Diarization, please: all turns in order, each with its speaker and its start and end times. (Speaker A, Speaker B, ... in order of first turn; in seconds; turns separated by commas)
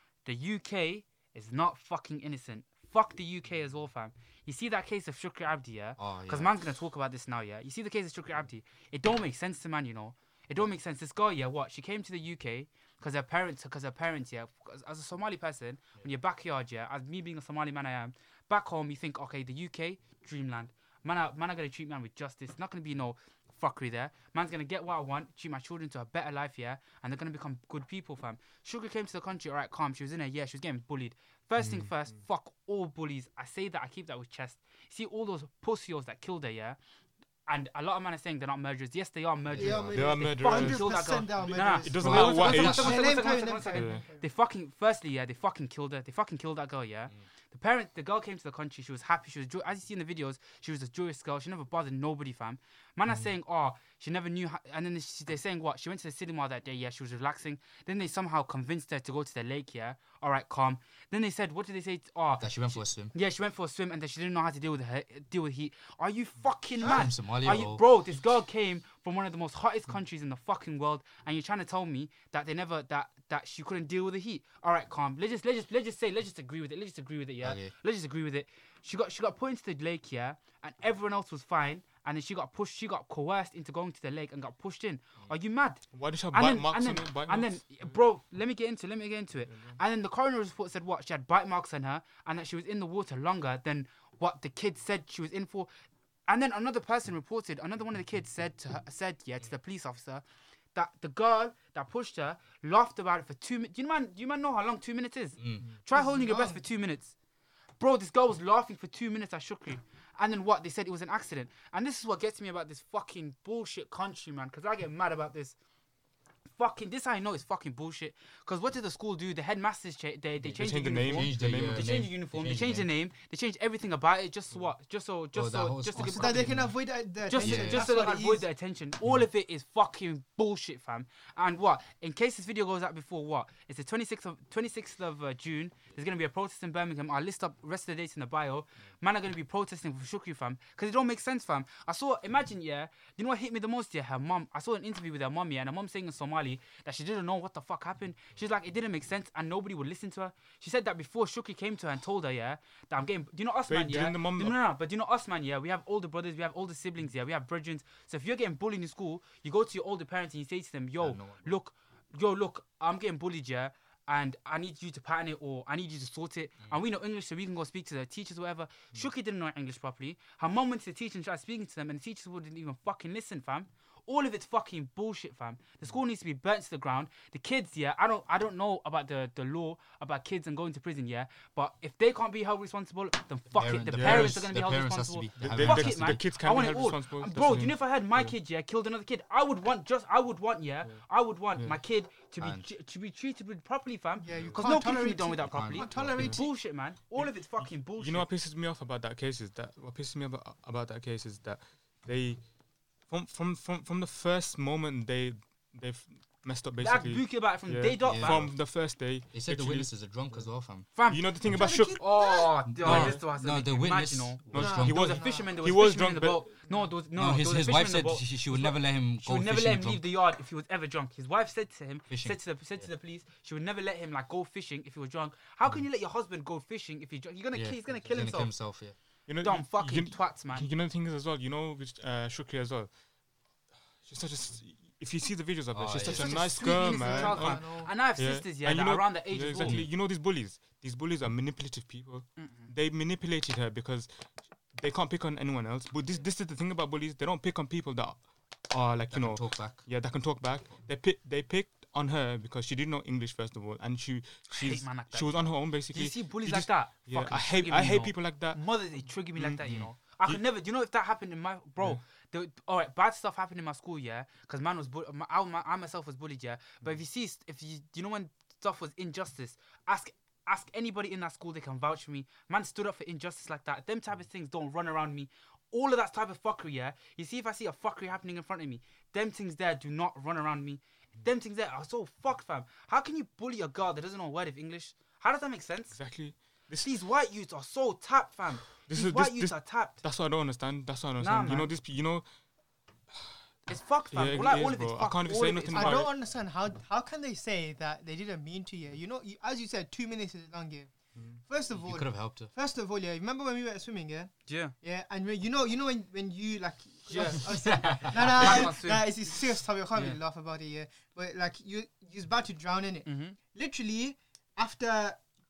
Speaker A: 0.2-36.8, Speaker B: 6.0-6.5, Speaker C: 31.6-31.9, Speaker A: 37.5-85.8, Speaker B: 39.5-40.1, Speaker D: 39.6-44.3, Speaker C: 39.9-43.2, Speaker B: 42.0-43.0, Speaker C: 43.7-44.0, Speaker B: 62.4-63.1, Speaker B: 66.8-67.8, Speaker B: 77.4-77.7, Speaker C: 85.9-88.0, Speaker A: 86.3-95.7, Speaker C: 89.5-89.8, Speaker A: 96.3-100.2, Speaker A: 100.8-107.1, Speaker B: 105.4-105.6, Speaker D: 105.9-106.6, Speaker A: 107.8-115.6, Speaker A: 116.6-126.5, Speaker B: 120.4-122.9, Speaker C: 120.6-121.9, Speaker B: 125.3-126.8, Speaker D: 126.0-128.5, Speaker A: 127.2-198.3, Speaker B: 127.4-127.9, Speaker C: 153.7-154.6, Speaker B: 161.0-161.6, Speaker B: 183.5-186.2, Speaker C: 183.9-184.5, Speaker C: 185.4-188.3, Speaker B: 192.4-192.7, Speaker D: 194.2-196.5, Speaker C: 194.3-194.6, Speaker B: 195.4-196.4, Speaker C: 196.2-196.4, Speaker C: 197.2-202.4, Speaker C: 203.1-209.9, Speaker A: 206.8-208.4, Speaker B: 208.0-208.7, Speaker B: 209.3-210.9, Speaker A: 210.9-211.3, Speaker C: 211.1-212.0, Speaker D: 211.4-212.6, Speaker A: 211.9-228.5, Speaker B: 212.7-215.0, Speaker C: 212.8-213.2, Speaker C: 214.5-216.5, Speaker D: 214.6-215.5, Speaker B: 217.2-220.1, Speaker B: 222.1-222.9, Speaker B: 227.5-229.0, Speaker C: 229.3-232.9, Speaker A: 229.4-230.7, Speaker C: 234.0-258.6, Speaker B: 235.7-236.6, Speaker A: 236.1-239.8, Speaker D: 236.1-237.9, Speaker B: 239.6-239.9, Speaker A: 242.4-242.7, Speaker B: 249.1-249.8, Speaker A: 254.5-286.0, Speaker C: 259.4-259.7, Speaker B: 259.6-259.9, Speaker C: 285.9-286.9, Speaker A: 286.8-290.0, Speaker C: 288.9-292.2, Speaker A: 291.2-291.7, Speaker A: 293.7-296.1, Speaker C: 294.1-296.1, Speaker D: 295.7-300.9, Speaker C: 301.1-301.4, Speaker D: 301.4-315.2, Speaker B: 301.7-302.5, Speaker A: 304.5-304.7, Speaker A: 307.1-309.1, Speaker B: 307.5-308.7, Speaker A: 313.1-313.4